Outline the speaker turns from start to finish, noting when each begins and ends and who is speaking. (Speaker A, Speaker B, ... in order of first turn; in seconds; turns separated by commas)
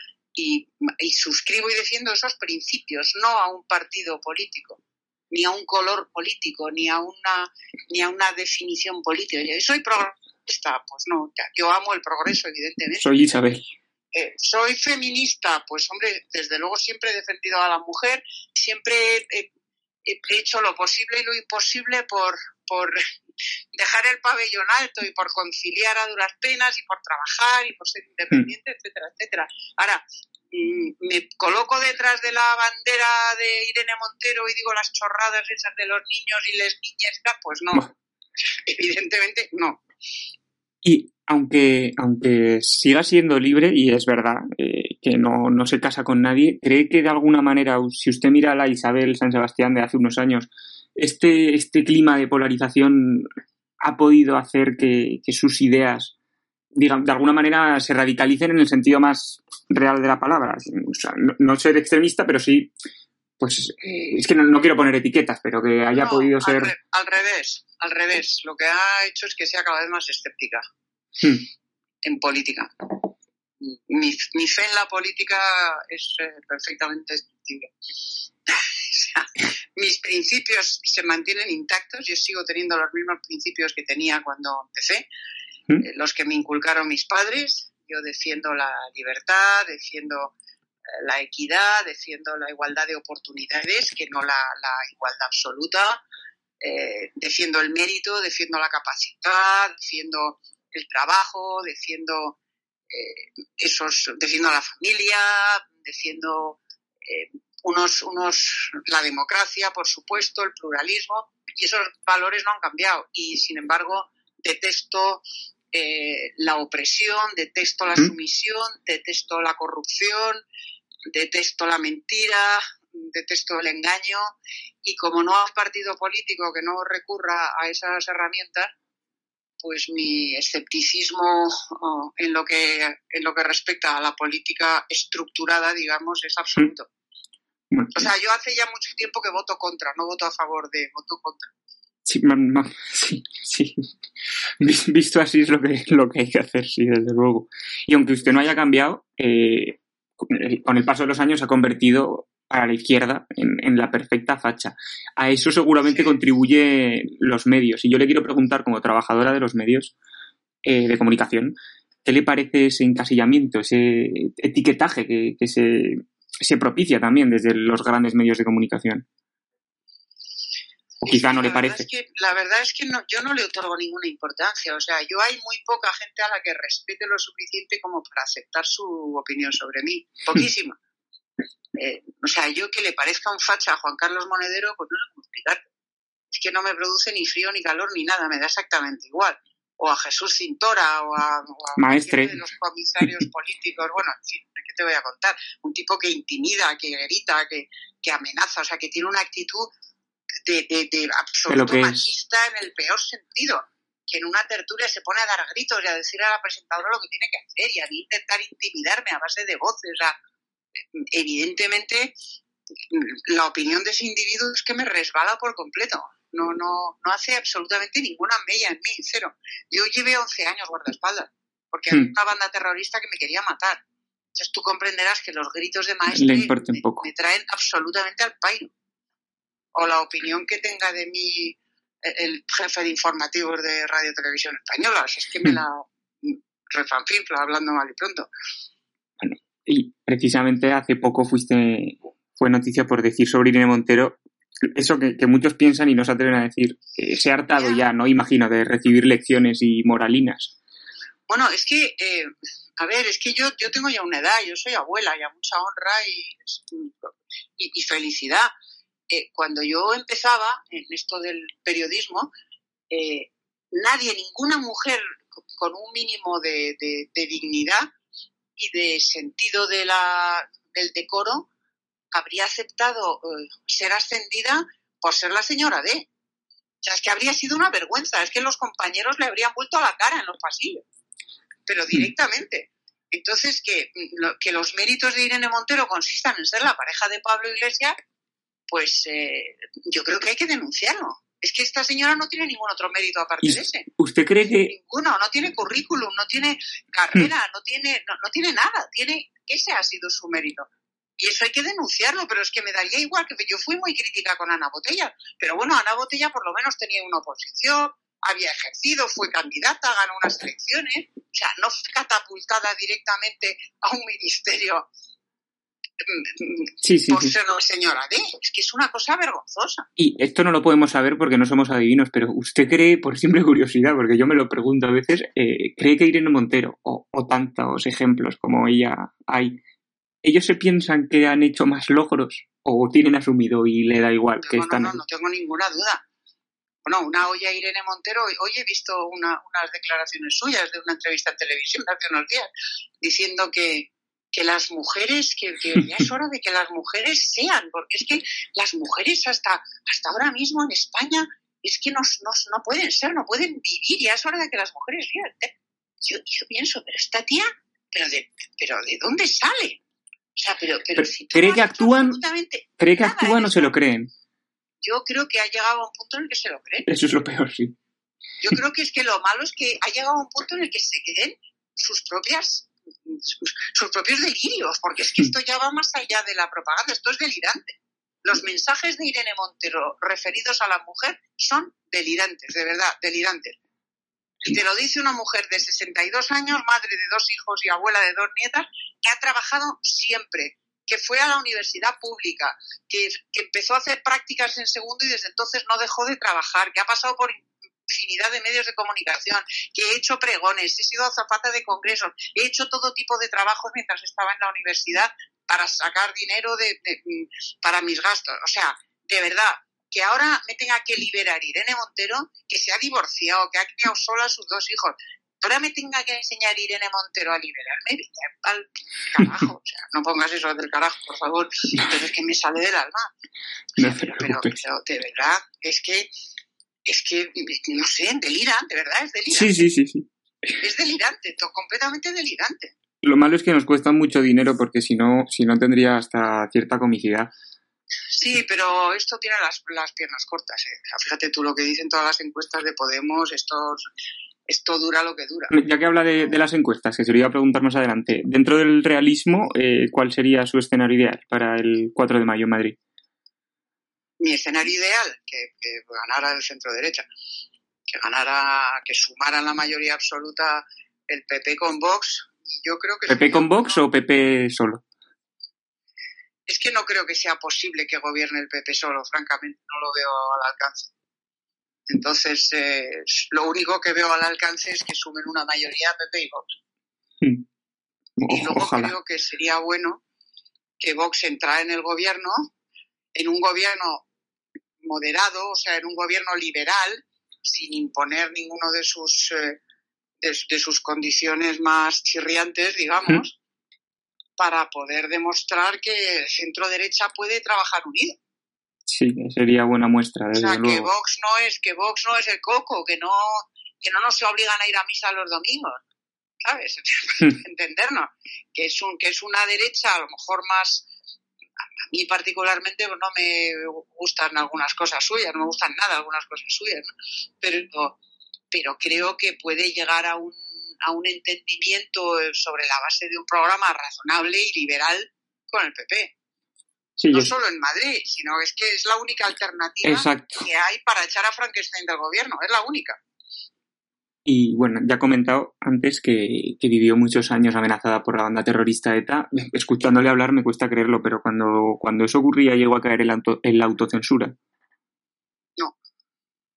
Speaker A: 0.3-13.0, Speaker B: 12.9-13.7, Speaker A: 14.1-19.5, Speaker A: 20.0-23.0, Speaker A: 23.7-37.9, Speaker A: 38.4-39.8, Speaker B: 40.8-53.3, Speaker B: 53.8-56.1, Speaker B: 56.7-62.7, Speaker B: 63.4-66.7, Speaker A: 65.9-70.6, Speaker A: 72.0-72.9, Speaker A: 73.6-77.7, Speaker A: 78.5-85.1, Speaker A: 85.8-90.3, Speaker A: 90.9-96.0, Speaker A: 96.6-102.4, Speaker A: 102.9-120.4, Speaker A: 121.1-128.7, Speaker A: 129.6-136.9, Speaker B: 137.7-138.0, Speaker A: 137.9-141.5, Speaker B: 142.1-143.9, Speaker B: 144.6-159.9, Speaker B: 160.6-169.1, Speaker B: 171.0-171.8, Speaker A: 171.1-180.8, Speaker A: 181.7-185.7, Speaker A: 186.3-199.7, Speaker B: 191.8-192.4, Speaker A: 200.4-210.2, Speaker B: 201.5-202.1, Speaker A: 210.9-212.2, Speaker A: 212.9-223.8, Speaker A: 224.3-228.7, Speaker B: 226.1-227.1, Speaker A: 229.7-238.3, Speaker B: 239.2-244.2, Speaker B: 244.7-250.5, Speaker A: 251.3-258.5, Speaker A: 259.1-262.3, Speaker A: 262.9-267.9, Speaker A: 268.6-271.5, Speaker A: 272.1-276.1, Speaker A: 276.8-280.8, Speaker A: 281.6-288.0, Speaker A: 288.7-293.9, Speaker B: 293.4-294.7, Speaker A: 294.5-314.9, Speaker A: 316.0-319.9, Speaker B: 316.8-317.3, Speaker B: 320.0-329.6, Speaker B: 330.2-335.0, Speaker A: 334.4-336.0, Speaker A: 336.8-342.5, Speaker A: 343.0-359.8, Speaker A: 360.3-363.7, Speaker B: 361.0-362.2, Speaker B: 362.8-364.1, Speaker A: 364.8-366.9, Speaker B: 366.9-367.8, Speaker A: 368.4-383.6, Speaker A: 384.4-423.1, Speaker A: 423.8-426.1, Speaker B: 423.8-424.6, Speaker A: 426.8-429.6, Speaker B: 429.3-430.1, Speaker A: 430.6-432.7, Speaker B: 433.0-437.3, Speaker A: 438.1-443.8, Speaker A: 444.5-445.6, Speaker B: 445.5-452.8, Speaker A: 454.2-457.1, Speaker A: 457.9-463.8, Speaker B: 463.1-464.8, Speaker A: 466.5-470.9, Speaker A: 471.9-476.5, Speaker B: 478.2-478.9, Speaker A: 478.3-480.0, Speaker A: 480.8-482.5, Speaker A: 483.1-484.1, Speaker A: 484.8-489.6, Speaker A: 490.2-493.4, Speaker A: 494.4-498.2, Speaker B: 498.9-500.9, Speaker A: 500.3-505.8, Speaker A: 506.4-510.9, Speaker A: 511.9-518.0, Speaker A: 518.5-526.1, Speaker B: 527.0-527.3, Speaker A: 527.1-533.0, Speaker B: 529.8-530.5, Speaker B: 534.2-544.4